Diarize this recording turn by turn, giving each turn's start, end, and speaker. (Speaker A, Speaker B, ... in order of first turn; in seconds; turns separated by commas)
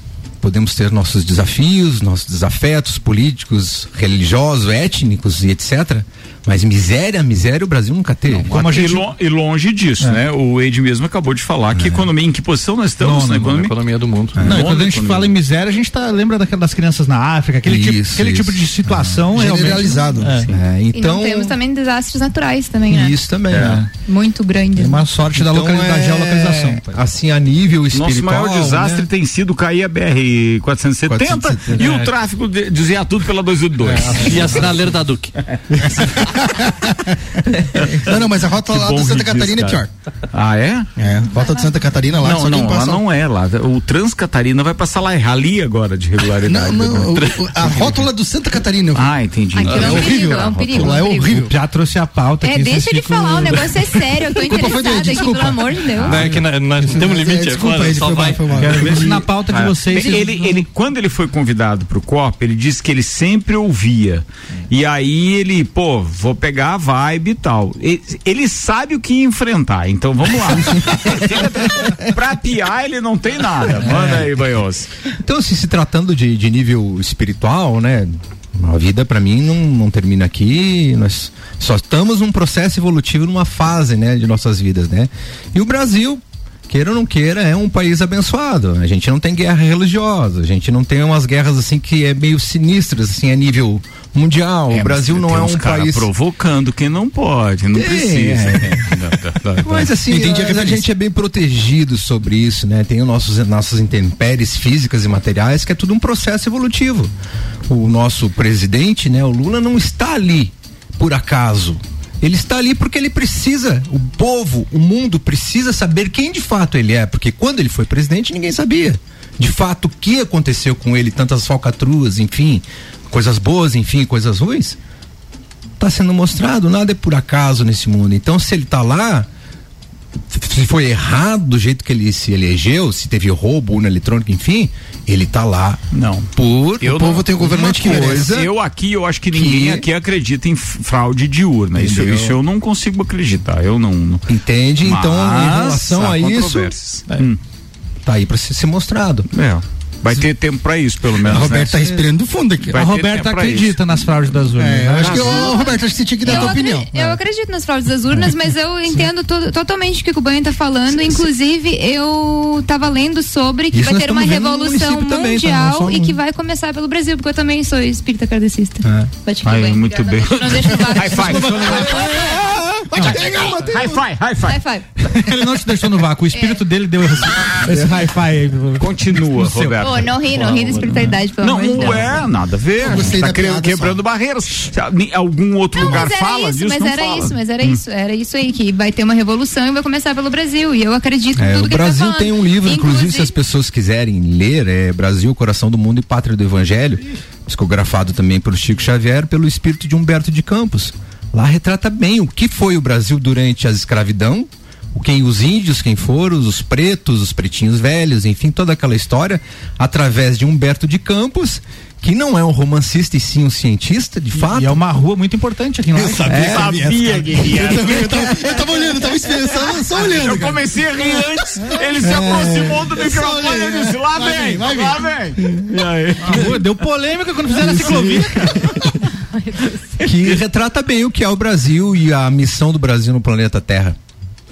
Speaker A: 0.4-8.5, Speaker B: 8.4-13.7, Speaker C: 8.5-9.1, Speaker A: 11.7-12.1, Speaker C: 13.0-13.6, Speaker D: 13.5-14.4, Speaker B: 14.4-15.3, Speaker C: 14.4-20.5, Speaker A: 17.6-19.3, Speaker E: 19.3-20.4, Speaker A: 20.5-21.6, Speaker F: 20.9-23.2, Speaker A: 22.9-23.9, Speaker B: 23.5-23.8, Speaker C: 23.5-23.9, Speaker F: 24.1-25.1, Speaker C: 24.8-27.0, Speaker A: 25.3-29.1, Speaker B: 27.9-34.7, Speaker A: 31.1-31.9, Speaker C: 31.7-32.1, Speaker A: 34.0-34.7, Speaker D: 34.2-35.3, Speaker E: 36.1-37.1, Speaker B: 37.7-40.9, Speaker E: 37.8-39.9, Speaker E: 41.0-43.0, Speaker F: 41.4-41.7, Speaker B: 42.2-48.0, Speaker E: 46.5-49.1, Speaker B: 49.0-50.9, Speaker F: 49.5-51.4, Speaker E: 49.7-51.5, Speaker D: 49.7-50.0, Speaker C: 51.3-54.3, Speaker F: 52.4-56.2, Speaker E: 54.4-59.3, Speaker D: 56.0-58.7, Speaker C: 58.6-60.6, Speaker B: 58.8-74.9, Speaker A: 73.8-74.3, Speaker A: 75.2-96.1, Speaker B: 94.7-99.9, Speaker A: 97.7-99.0, Speaker A: 99.6-107.1, Speaker E: 100.1-100.9, Speaker A: 107.7-124.8, Speaker A: 125.8-129.3, Speaker A: 130.3-135.8, Speaker B: 135.9-136.3, Speaker A: 136.3-138.5, Speaker E: 136.8-138.3, Speaker B: 136.8-137.2, Speaker B: 137.8-144.3, Speaker A: 139.3-139.9, Speaker A: 141.8-142.4, Speaker A: 144.3-147.2, Speaker B: 144.8-147.4, Speaker A: 148.0-149.3, Speaker B: 149.3-151.8, Speaker E: 151.2-152.8, Speaker B: 152.7-153.8, Speaker C: 152.7-155.5, Speaker E: 154.6-157.2, Speaker B: 155.0-155.8, Speaker F: 156.2-172.2, Speaker A: 163.7-166.2, Speaker A: 168.8-169.1, Speaker B: 169.4-174.6, Speaker E: 172.9-174.0, Speaker F: 174.4-174.9, Speaker C: 175.0-179.7, Speaker F: 176.3-176.6, Speaker B: 178.8-187.8, Speaker F: 179.8-182.3, Speaker E: 182.8-184.0, Speaker F: 185.7-193.3, Speaker A: 191.4-214.8, Speaker C: 214.4-216.7, Speaker E: 215.9-225.7, Speaker B: 216.3-218.8, Speaker B: 219.9-226.6, Speaker C: 226.2-228.6, Speaker E: 227.6-228.7, Speaker B: 227.7-228.9, Speaker F: 229.3-229.8, Speaker A: 230.0-234.0